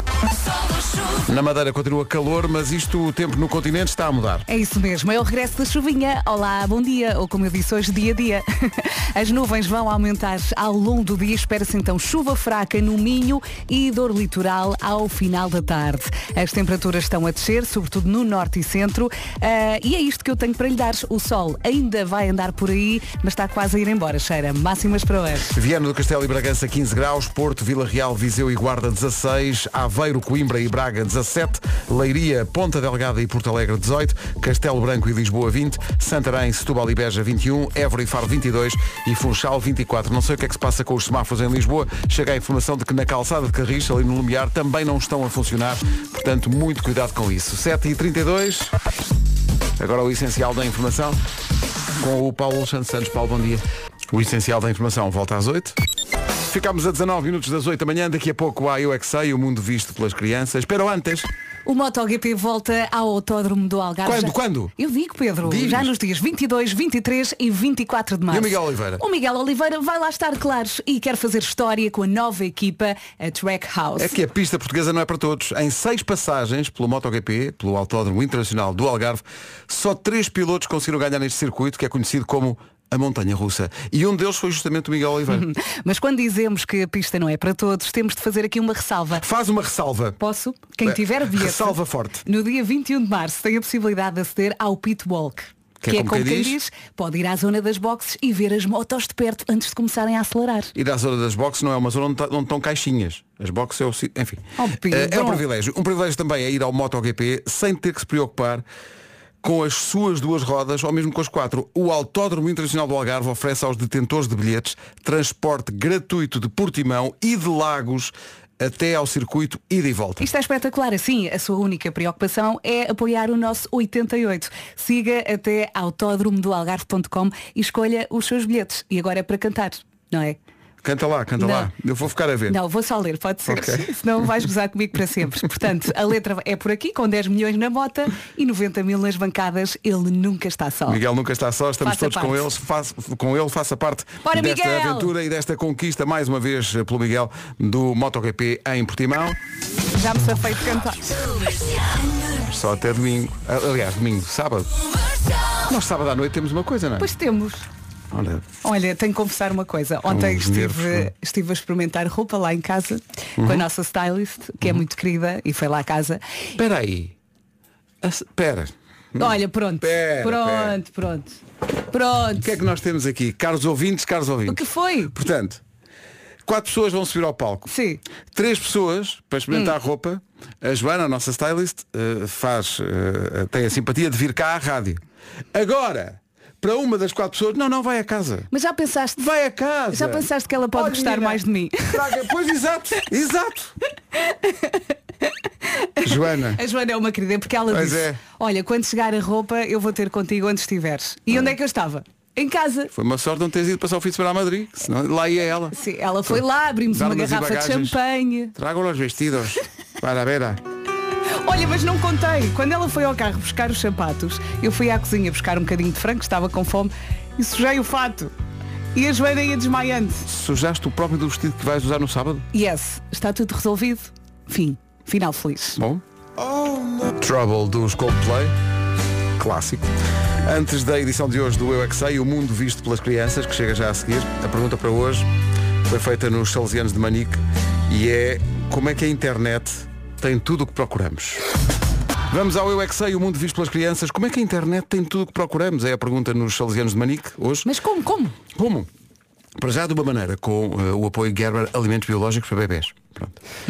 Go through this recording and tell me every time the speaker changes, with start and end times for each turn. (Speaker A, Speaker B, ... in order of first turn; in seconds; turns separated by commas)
Speaker A: 1.1-4.5, Speaker B: 4.5-25.5, Speaker A: 25.5-48.7, Speaker A: 49.8-51.2, Speaker A: 52.0-55.8, Speaker A: 56.4-61.3, Speaker B: 61.7-74.2, Speaker A: 64.0-64.7, Speaker A: 65.4-65.9, Speaker A: 68.3-69.0, Speaker A: 74.0-85.5, Speaker B: 85.3-89.2, Speaker A: 89.2-90.2, Speaker B: 90.2-100.7, Speaker A: 90.8-92.2, Speaker A: 95.8-96.6, Speaker A: 100.8-108.7, Speaker B: 104.6-105.4, Speaker A: 109.4-120.3, Speaker B: 120.2-130.4, Speaker A: 130.8-132.6, Speaker B: 131.4-131.7, Speaker B: 132.5-141.0, Speaker A: 133.5-133.9, Speaker A: 140.9-149.4, Speaker B: 141.8-142.6, Speaker B: 144.2-145.1, Speaker B: 149.9-151.3, Speaker A: 152.3-154.7, Speaker A: 155.7-157.1, Speaker B: 157.0-157.7, Speaker A: 158.1-158.5, Speaker B: 158.6-166.2, Speaker A: 160.1-161.1, Speaker A: 163.4-163.7, Speaker A: 166.6-167.2, Speaker A: 168.0-170.8, Speaker B: 169.2-172.6, Speaker A: 172.4-175.6, Speaker B: 174.5-175.1, Speaker A: 176.5-177.7, Speaker B: 177.7-178.0, Speaker A: 178.3-185.0, Speaker A: 185.5-188.5, Speaker B: 188.5-189.2, Speaker A: 189.2-193.8, Speaker B: 189.9-192.0, Speaker B: 194.2-194.9, Speaker B: 195.7-202.9, Speaker A: 196.0-196.6, Speaker A: 197.7-198.2, Speaker A: 202.9-208.0, Speaker B: 205.8-208.5, Speaker A: 208.6-210.6, Speaker B: 211.4-218.3, Speaker B: 218.9-220.3, Speaker A: 220.2-222.5, Speaker B: 222.5-225.8, Speaker A: 225.8-228.6, Speaker A: 229.4-229.9, Speaker A: 230.4-235.3, Speaker A: 235.9-241.5, Speaker A: 242.3-247.7, Speaker B: 247.7-248.4, Speaker A: 248.5-248.9, Speaker A: 249.6-253.4